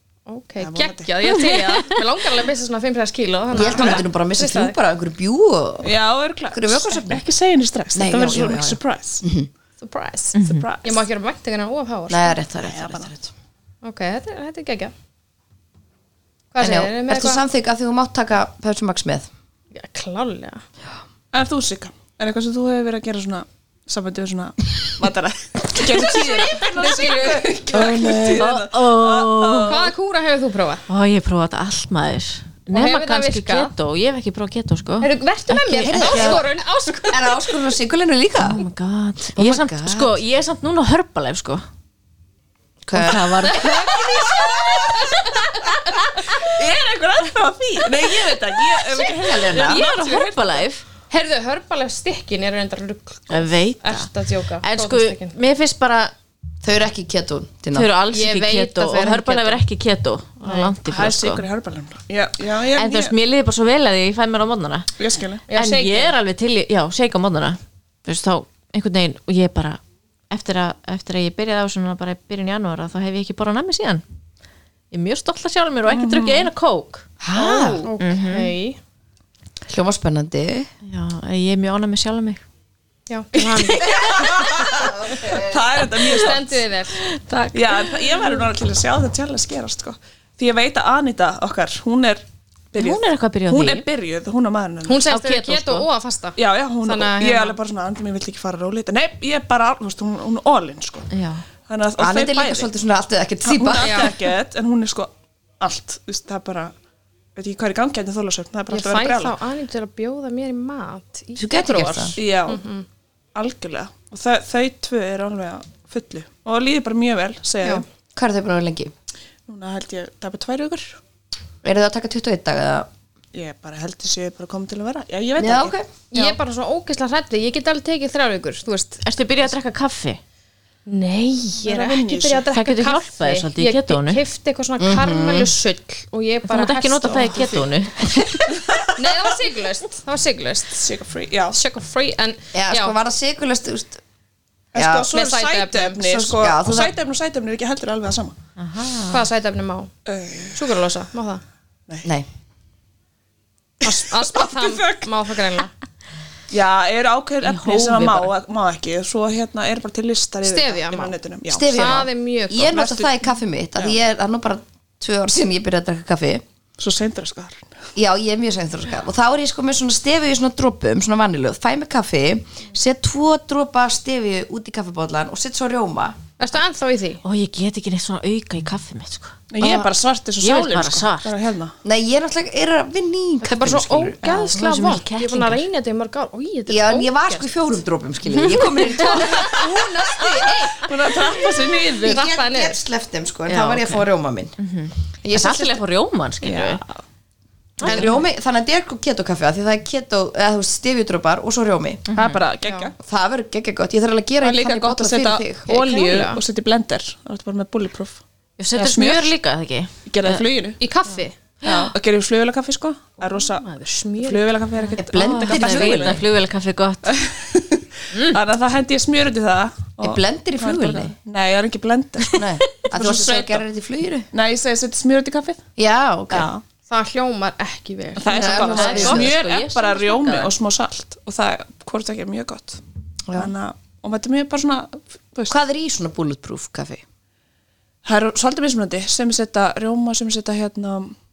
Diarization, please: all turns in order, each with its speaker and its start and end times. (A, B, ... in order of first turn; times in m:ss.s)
0:00.3-0:04.8 A
0:00.6-0:01.1 B
0:01.3-0:02.0 C
0:03.5-0:05.9 D
0:03.7-0:04.0 B
0:05.8-0:09.2 B
0:06.5-0:07.2 D
0:08.0-0:09.5 D
0:09.8-0:12.4 A
0:10.4-0:10.7 C
0:10.4-0:11.0 B
0:12.1-0:13.3 D
0:12.6-0:13.1 B
0:13.8-0:14.9 A
0:16.5-0:17.4 A
0:16.6-0:19.3 D
0:19.7-0:20.7 A
0:21.3-0:29.9 B
0:26.1-0:27.7 A
0:27.7-0:28.5 D
0:27.9-0:29.8 C
0:29.6-0:30.9 A
0:30.9-0:36.4 C
0:32.7-0:33.7 A
0:35.0-0:37.5 A
0:35.8-0:36.4 D
0:37.1-0:38.7 D
0:38.4-0:41.6 C
0:39.3-0:40.2 D
0:42.9-0:43.7 D
0:42.9-0:46.5 C
0:43.4-0:45.3 B
0:43.5-0:43.8 A
0:44.9-0:45.6 A
0:45.9-0:50.6 B
0:49.1-0:49.8 D
0:49.5-0:50.8 C
0:51.1-0:55.4 A
0:53.3-0:54.1 C
0:54.6-0:56.1 C
0:56.6-0:57.9 D
0:57.7-1:01.5 C
0:58.1-0:59.4 A
0:58.8-0:59.6 D
1:00.4-1:00.7 A
1:00.8-1:03.1 B
1:02.8-1:04.9 C
1:05.0-1:05.4 B
1:05.5-1:06.1 A
1:05.5-1:14.0 C
1:14.9-1:18.5 C
1:15.9-1:16.5 B
1:17.2-1:17.9 D
1:17.8-1:18.8 A
1:19.7-1:20.7 D
1:20.8-1:22.4 C
1:23.1-1:24.3 A
1:23.6-1:24.5 C
1:23.7-1:26.6 B
1:24.2-1:25.6 D
1:26.0-1:27.8 A
1:27.5-1:35.1 B
1:32.8-1:33.8 C
1:34.9-1:37.6 A
1:35.1-1:35.9 C
1:36.4-1:41.1 B
1:41.1-1:41.4 C
1:41.7-1:42.7 B
1:42.0-1:44.2 D
1:43.4-1:45.1 B
1:43.8-1:44.1 A
1:45.6-1:46.7 B
1:47.4-1:49.4 B
1:48.7-1:52.8 A
1:51.4-1:52.2 D
1:52.2-1:52.6 B
1:53.4-1:57.8 B
1:58.1-1:58.9 D
1:59.5-2:01.0 B
2:01.6-2:02.9 D
2:03.3-2:06.4 B
2:05.4-2:05.9 D
2:06.1-2:09.0 A
2:09.0-2:10.2 C
2:10.9-2:17.6 A
2:11.6-2:12.5 B
2:12.5-2:14.2 C
2:14.8-2:15.5 D
2:16.5-2:18.5 C
2:17.1-2:17.6 B
2:18.5-2:19.2 B
2:19.0-2:20.8 A
2:20.7-2:21.6 B
2:21.5-2:23.0 A
2:22.5-2:24.0 D
2:24.7-2:28.4 B
2:24.8-2:25.1 D
2:25.1-2:26.0 A
2:26.0-2:26.9 D
2:28.6-2:29.2 C
2:29.1-2:29.9 A
2:30.1-2:30.8 B
2:30.5-2:31.4 A
2:33.8-2:35.7 A
2:33.9-2:35.1 B
2:36.5-2:42.0 B
2:37.4-2:38.3 C
2:40.4-2:41.1 A
2:41.5-2:46.4 D
2:41.7-2:42.8 A
2:42.6-2:43.2 B
2:46.8-2:47.7 B
2:48.0-2:56.2 D
2:56.4-2:57.2 A
2:57.2-3:01.3 C
2:59.5-3:01.8 B
3:01.8-3:04.2 D
3:03.4-3:07.5 A
3:04.3-3:05.6 C
3:06.7-3:10.3 D
3:08.3-3:09.2 C
3:09.0-3:10.9 A
3:10.2-3:12.2 B
3:12.0-3:14.6 D
3:12.0-3:12.8 A
3:13.5-3:14.0 C
3:14.6-3:16.8 C
3:15.2-3:15.8 D
3:16.4-3:17.0 B
3:17.8-3:18.2 B
3:17.8-3:18.2 C
3:17.8-3:22.0 D
3:22.1-3:22.4 C
3:22.1-3:23.0 B
3:22.6-3:22.9 A
3:23.0-3:25.7 D
3:24.4-3:28.2 B
3:25.7-3:26.4 A
3:28.6-3:30.4 C
3:28.8-3:29.3 B
3:30.1-3:30.8 B
3:30.8-3:31.4 A
3:31.6-3:31.9 C
3:31.6-3:33.6 B
3:33.2-3:34.4 A
3:34.2-3:36.3 B
3:35.0-3:36.2 D
3:35.0-3:37.1 C
3:37.0-3:43.6 B
3:38.1-3:38.4 C
3:40.0-3:41.1 D
3:42.3-3:44.3 D
3:44.3-3:45.7 B
3:45.8-3:46.5 D
3:46.3-3:46.6 B
3:46.9-3:49.3 A
3:48.2-3:52.8 B
3:48.3-3:49.3 D
3:48.7-3:50.5 C
3:53.3-3:53.5 D
3:53.3-3:55.6 B
3:55.5-3:57.0 D
3:58.0-4:01.2 B